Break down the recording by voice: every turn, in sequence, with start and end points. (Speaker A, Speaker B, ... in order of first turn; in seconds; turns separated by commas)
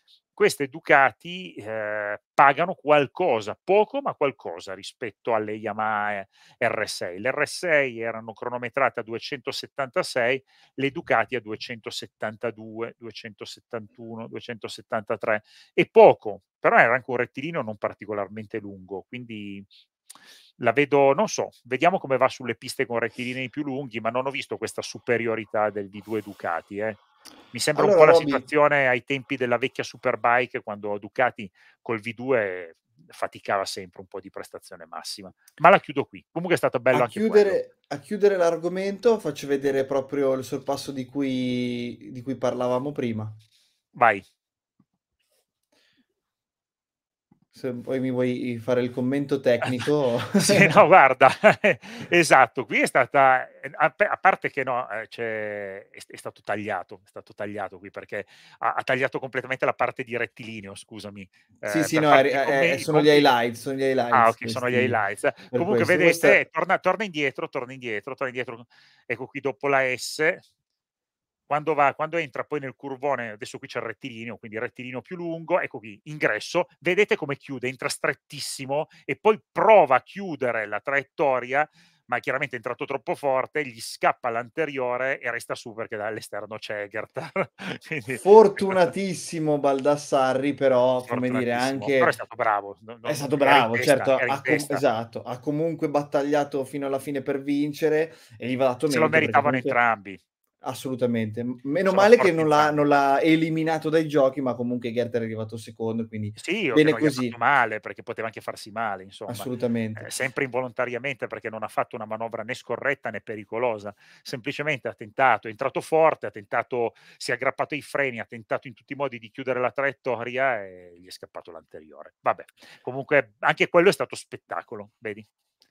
Speaker A: 0.4-19.7, Speaker A: 20.6-37.6, Speaker B: 27.8-28.4, Speaker B: 36.9-43.4, Speaker A: 44.0-44.2, Speaker B: 47.5-50.8, Speaker A: 50.4-63.3, Speaker B: 61.7-65.0, Speaker A: 64.1-70.4, Speaker B: 65.5-66.4, Speaker A: 71.5-88.9, Speaker B: 88.2-92.2, Speaker A: 91.0-94.8, Speaker B: 93.0-99.8, Speaker A: 98.9-100.2, Speaker B: 100.6-107.4, Speaker A: 101.9-102.8, Speaker A: 106.4-125.3, Speaker B: 109.3-110.1